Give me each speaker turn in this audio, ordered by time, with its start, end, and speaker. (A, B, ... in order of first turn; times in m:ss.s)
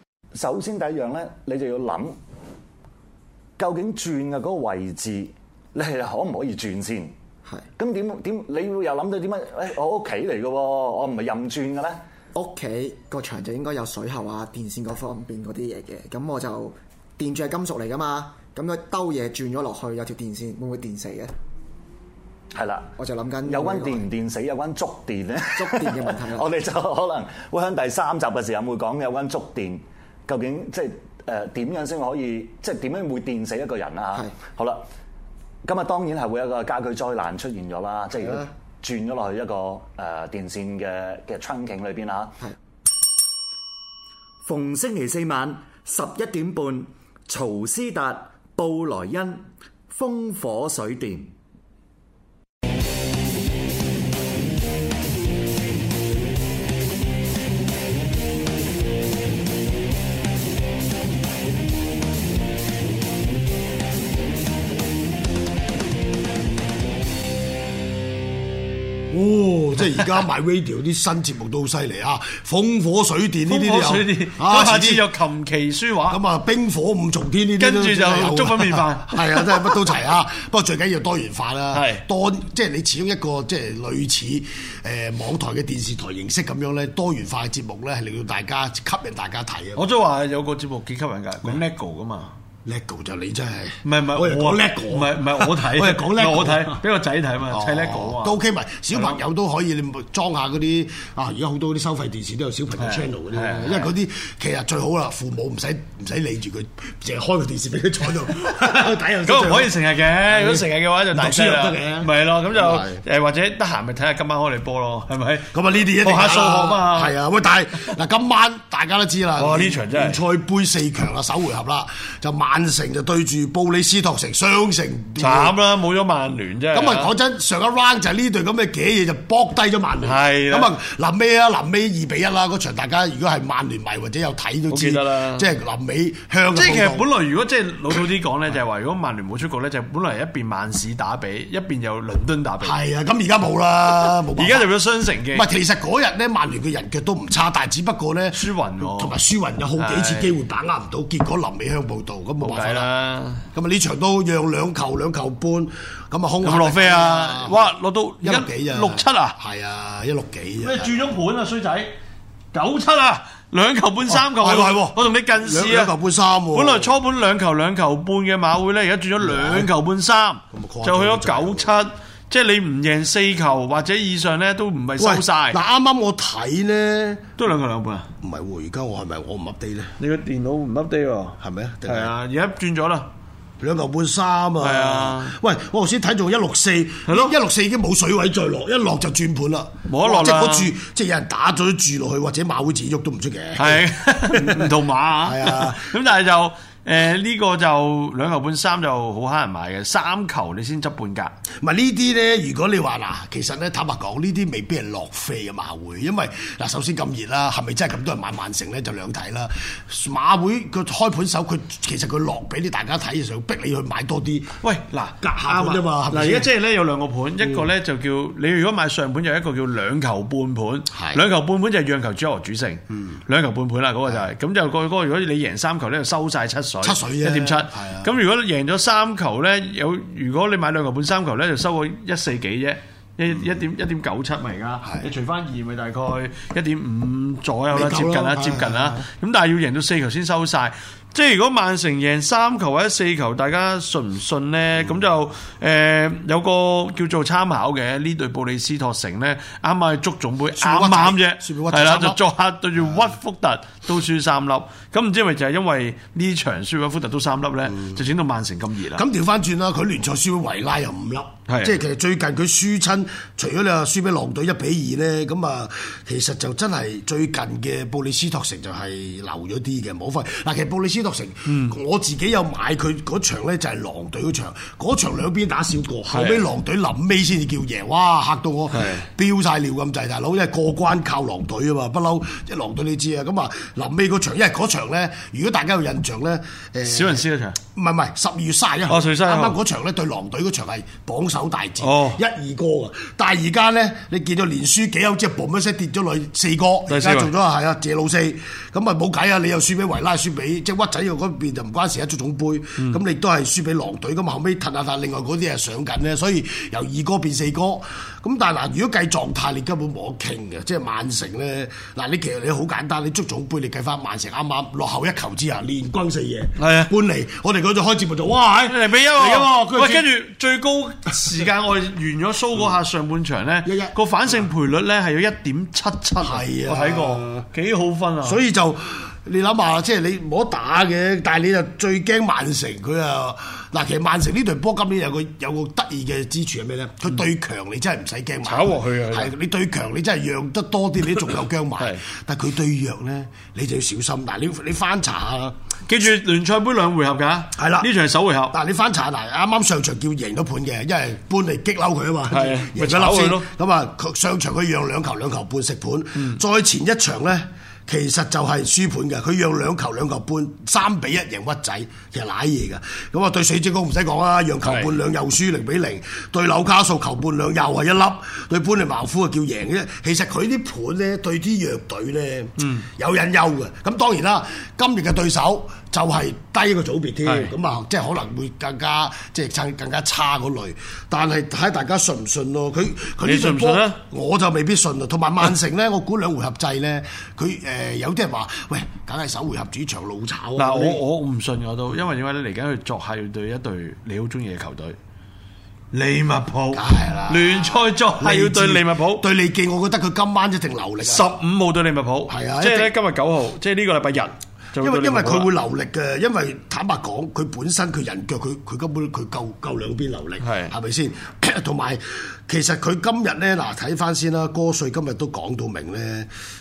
0:00.3-0:02.2 A
0:03.6-0:07.1 A
0:07.8-0:12.0 A
0:12.4-0:21.3 B
0:22.6-0:22.9 A
0:22.9-0:24.2 B
0:23.5-0:34.8 A
0:25.4-0:26.6 B
0:34.1-0:34.4 B
0:35.6-0:42.4 A
0:38.2-0:38.5 B
0:44.5-0:46.1 A
0:44.8-0:45.2 C
0:46.0-0:46.6 C
0:46.6-0:49.1 A
0:48.7-0:49.4 C
0:50.0-0:51.2 C
1:09.1-1:15.1 D
1:13.5-1:16.2 E
1:16.1-1:29.8 D
1:17.6-1:19.9 E
1:21.7-1:22.0 E
1:29.8-1:32.3 E
1:32.6-1:36.8 D
1:33.8-1:38.4 E
1:37.5-1:49.8 D
1:38.9-1:39.2 E
1:42.8-1:43.9 E
1:49.2-1:55.5 E
1:50.3-1:53.0 D
1:55.5-2:05.6 D
1:56.0-1:57.1 E
1:59.4-2:00.2 E
2:05.2-2:07.1 E
2:06.7-2:17.1 D
2:10.0-2:10.7 E
2:14.7-2:15.5 E
2:16.5-2:22.8 E
2:22.6-2:24.7 D
2:24.0-2:25.5 E
2:25.3-2:32.9 D
2:28.3-2:29.2 E
2:29.8-2:30.4 E
2:32.4-2:33.4 E
2:33.5-2:37.7 D
2:36.4-2:39.4 E
2:38.2-2:41.1 D
2:40.6-2:41.9 E
2:42.5-2:45.9 E
2:44.1-2:46.9 D
2:46.5-2:55.6 E
2:49.2-2:49.7 D
2:50.5-2:51.7 D
2:55.0-2:57.3 D
2:57.4-2:58.1 E
2:58.2-2:59.9 D
3:00.0-3:03.1 E
3:01.4-3:02.2 D
3:03.6-3:14.7 D
3:04.6-3:05.4 E
3:07.1-3:07.4 E
3:09.9-3:10.8 E
3:13.6-3:21.3 E
3:15.2-3:15.9 D
3:21.6-3:34.6 D
3:34.6-4:19.0 E
3:35.2-3:36.5 D
3:40.9-3:41.2 D
3:46.8-3:48.1 D
3:54.8-3:55.1 D
3:57.7-3:59.0 D
4:10.6-4:12.2 D
4:18.9-5:20.1 D
4:21.5-4:21.8 E
4:31.5-4:31.8 E
4:36.1-4:36.5 E
4:38.7-4:39.1 E
4:46.8-4:47.6 E
4:48.9-4:49.6 E
4:51.8-4:52.2 E
4:56.9-4:57.3 E
5:16.6-5:16.9 E
5:18.7-5:28.4 E
5:23.6-5:24.0 D
5:26.2-5:27.4 D
5:28.2-5:45.6 D
5:38.4-5:39.3 E
5:45.9-5:48.6 E
5:47.6-5:47.9 D
5:48.5-6:31.0 D
5:52.3-5:53.5 E
5:56.2-5:56.4 E
6:04.6-6:04.9 E
6:12.6-6:12.9 E
6:17.2-6:17.5 E
6:23.2-6:24.0 E
6:30.6-6:35.0 E
6:35.9-6:39.2 E
6:36.7-6:41.3 D
6:41.0-6:45.5 E
6:42.3-6:42.9 D
6:44.8-6:56.3 D
6:50.4-6:50.7 E